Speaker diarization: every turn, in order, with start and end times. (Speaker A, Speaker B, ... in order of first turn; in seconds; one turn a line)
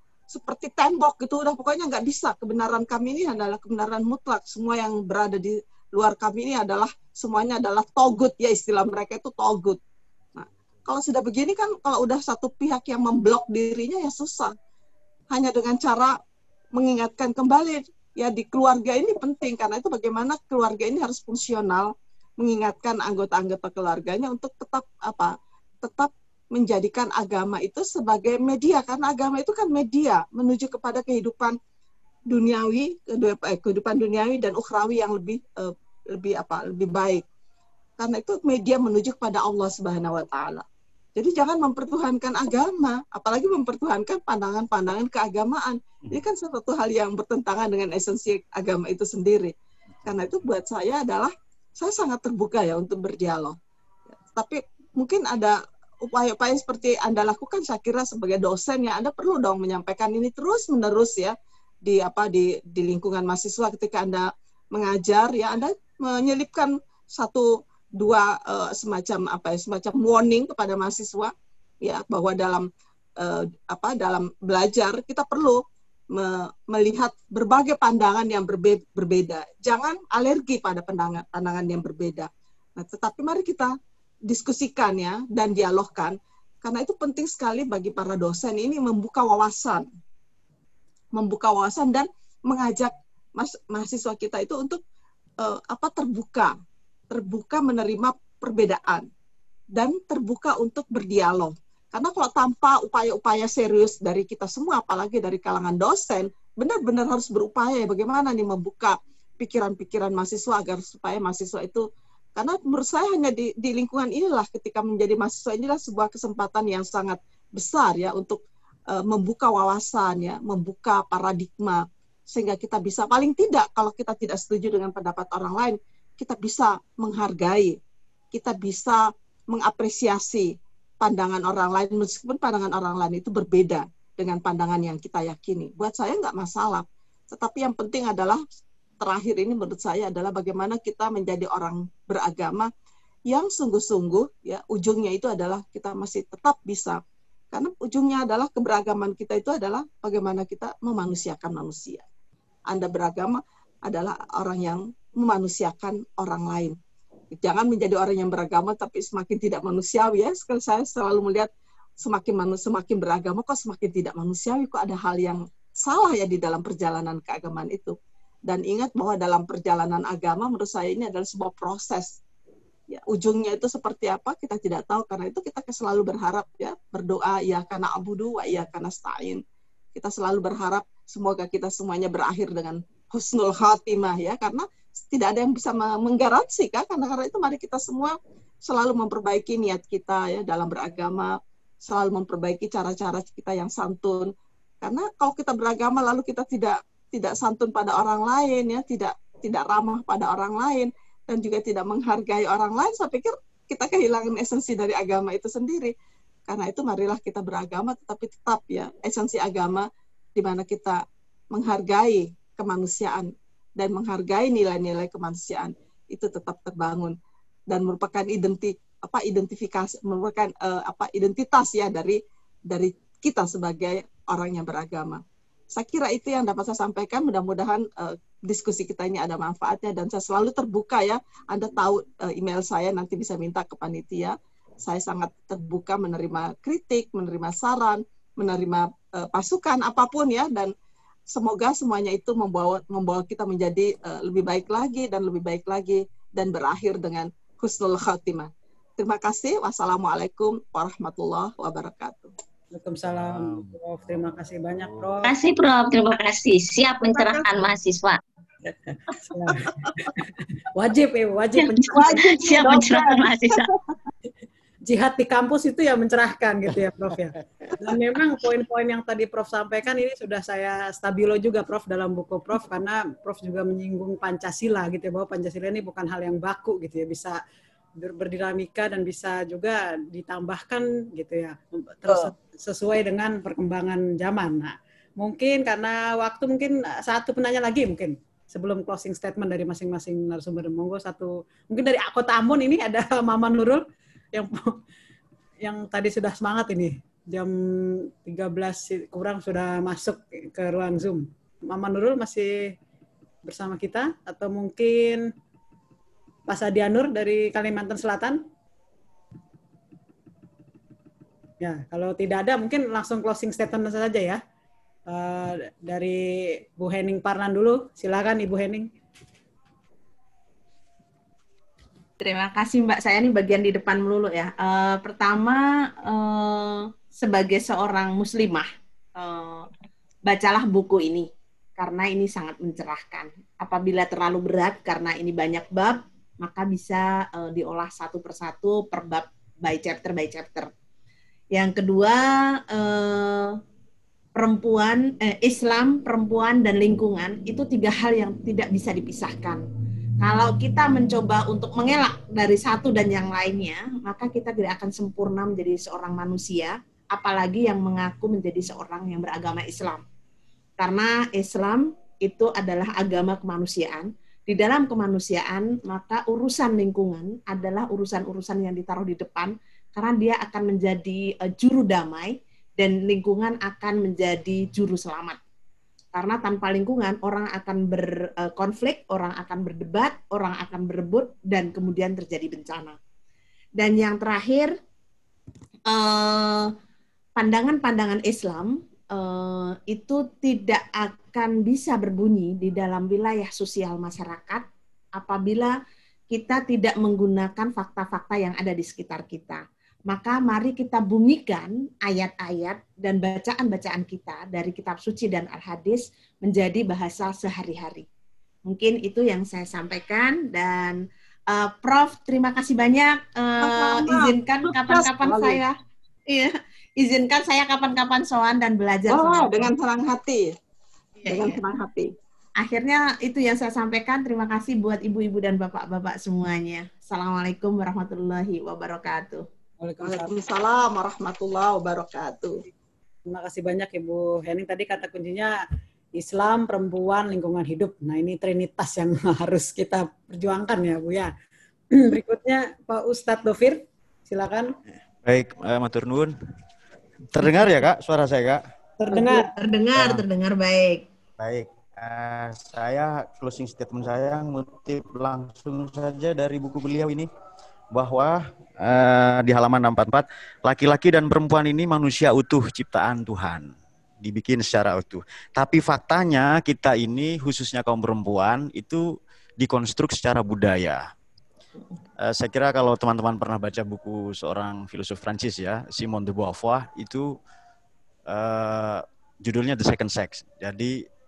Speaker A: 0.3-9.8
Speaker A: 10.4-14.5
Speaker A: 15.3-16.1
Speaker A: 16.8-31.6
Speaker A: 32.3-37.2
Speaker A: 38.0-40.6
Speaker A: 41.2-49.5
Speaker A: 50.0-53.6
Speaker A: 54.4-61.3
Speaker A: 61.9-71.3
Speaker A: 71.8-72.7
Speaker A: 73.2-75.6
Speaker A: 76.1-83.7
Speaker A: 84.3-89.9
Speaker A: 91.2-94.8
Speaker A: 95.4-96.5
Speaker A: 97.1-99.1
Speaker A: 99.8-111.8
Speaker A: 112.4-118.4
Speaker A: 118.9-127.8
Speaker A: 128.3-138.4
Speaker A: 139.0-142.7
Speaker A: 143.3-147.0
Speaker A: 147.5-152.1
Speaker A: 152.7-156.8
Speaker A: 157.3-161.5
Speaker A: 162.0-167.9
Speaker A: 168.5-172.2
Speaker A: 172.9-179.4
Speaker A: 179.9-188.2
Speaker A: 188.7-191.3
Speaker A: 191.8-194.3
Speaker A: 194.8-205.9
Speaker A: 206.5-211.0
Speaker A: 211.5-217.2
Speaker A: 217.7-225.2
Speaker A: 225.7-240.7
Speaker A: 241.3-252.3
Speaker B: 252.7-255.3
Speaker C: 253.2-253.8
Speaker C: 254.8-255.1
Speaker D: 255.2-258.2
Speaker A: 257.0-257.6
Speaker B: 258.9-262.2
Speaker A: 259.6-260.0
Speaker D: 261.6-263.7
Speaker A: 261.9-263.7
Speaker B: 264.9-277.4
Speaker B: 278.0-293.8
Speaker B: 294.3-294.6
Speaker B: 295.6-302.7
Speaker B: 303.4-305.3
Speaker B: 306.5-308.4
Speaker B: 311.6-314.4
Speaker B: 315.1-316.2
Speaker B: 316.8-318.9
Speaker E: 322.2-329.7
Speaker E: 330.3-340.7
Speaker E: 341.5-343.6
Speaker E: 344.4-349.6
Speaker E: 350.2-360.0
Speaker E: 360.8-375.4
Speaker E: 376.1-383.0
Speaker E: 383.8-384.7
Speaker E: 385.9-386.7
Speaker E: 387.4-394.6
Speaker E: 395.2-395.7
Speaker E: 396.3-408.1
Speaker E: 408.7-415.8
Speaker A: 413.6-415.6
Speaker E: 416.3-419.7
Speaker A: 419.1-420.5
Speaker E: 421.2-421.6
Speaker A: 421.3-422.1
Speaker E: 422.6-429.4
Speaker B: 429.8-430.3
Speaker A: 430.0-432.6
Speaker B: 433.3-435.5
Speaker B: 436.2-441.3
Speaker B: 442.0-444.7
Speaker C: 445.2-446.3
Speaker C: 447.3-448.6
Speaker B: 449.0-449.5
Speaker E: 449.1-451.1
Speaker C: 450.0-450.2
Speaker C: 451.4-457.3
Speaker C: 457.9-463.7
Speaker C: 464.2-469.1
Speaker C: 469.6-471.0
Speaker C: 472.2-477.4
Speaker C: 478.3-481.0